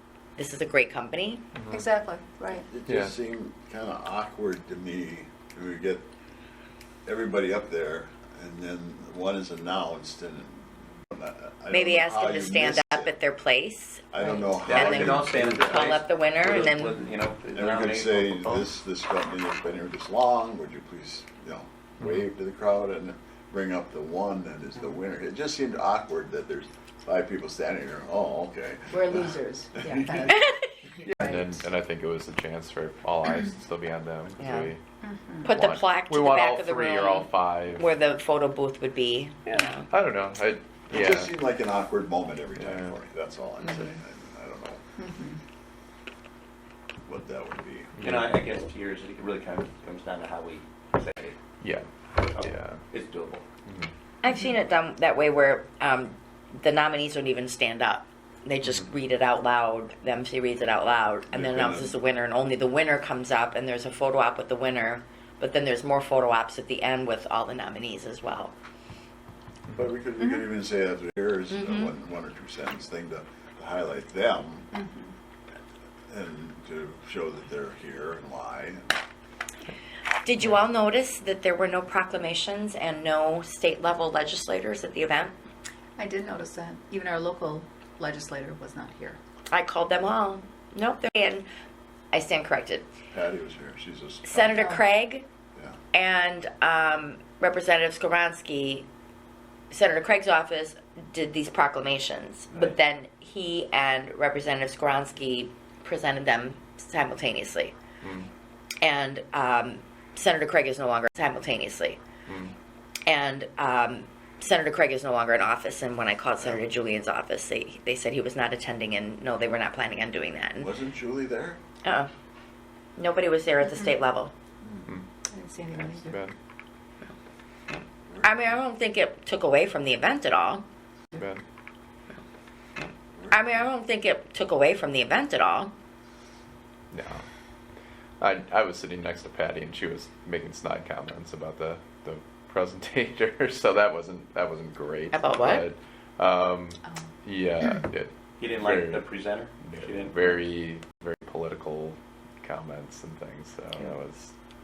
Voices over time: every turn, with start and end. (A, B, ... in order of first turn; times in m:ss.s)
0:00.4-0:01.4 A
0:01.6-0:01.8 B
0:01.7-0:02.7 C
0:02.6-0:06.1 D
0:02.9-0:03.1 B
0:07.1-0:13.1 D
0:11.7-0:17.0 A
0:14.1-0:15.8 D
0:14.6-0:18.5 E
0:17.6-0:30.5 D
0:28.9-0:30.4 C
0:31.0-0:34.8 B
0:31.2-0:31.6 C
0:34.4-0:34.7 A
0:35.0-0:35.5 C
0:35.4-0:39.9 A
0:35.5-0:37.8 B
0:39.5-0:41.3 B
0:40.9-0:44.8 D
0:42.6-0:43.0 B
0:43.6-0:43.9 A
0:45.0-0:45.4 C
0:47.1-0:48.0 D
0:48.0-0:48.4 B
0:48.0-0:51.4 E
0:51.6-0:52.8 B
0:52.2-0:53.5 E
0:54.2-1:08.5 A
1:01.3-1:02.0 D
1:09.7-1:14.7 D
1:11.5-1:11.9 A
1:14.7-1:15.1 C
1:16.1-1:18.9 D
1:20.2-1:25.4 A
1:26.0-1:29.2 C
1:29.5-1:31.5 A
1:32.1-1:32.9 A
1:33.1-1:34.5 D
1:34.2-1:35.3 A
1:34.4-1:34.8 C
1:35.9-1:38.9 A
1:39.7-1:47.8 A
1:48.0-1:48.3 B
1:48.8-1:52.0 A
1:52.3-1:52.5 B
1:53.1-2:00.7 A
2:00.6-2:01.6 D
2:01.8-2:02.1 A
2:03.0-2:04.3 A
2:05.3-2:06.2 C
2:05.8-2:06.3 B
2:07.7-2:10.6 A
2:11.2-2:11.4 B
2:12.8-2:15.7 A
2:13.2-2:13.4 D
2:16.9-2:17.2 B
2:18.2-2:34.3 B
2:25.1-2:25.7 A
2:28.4-2:30.4 E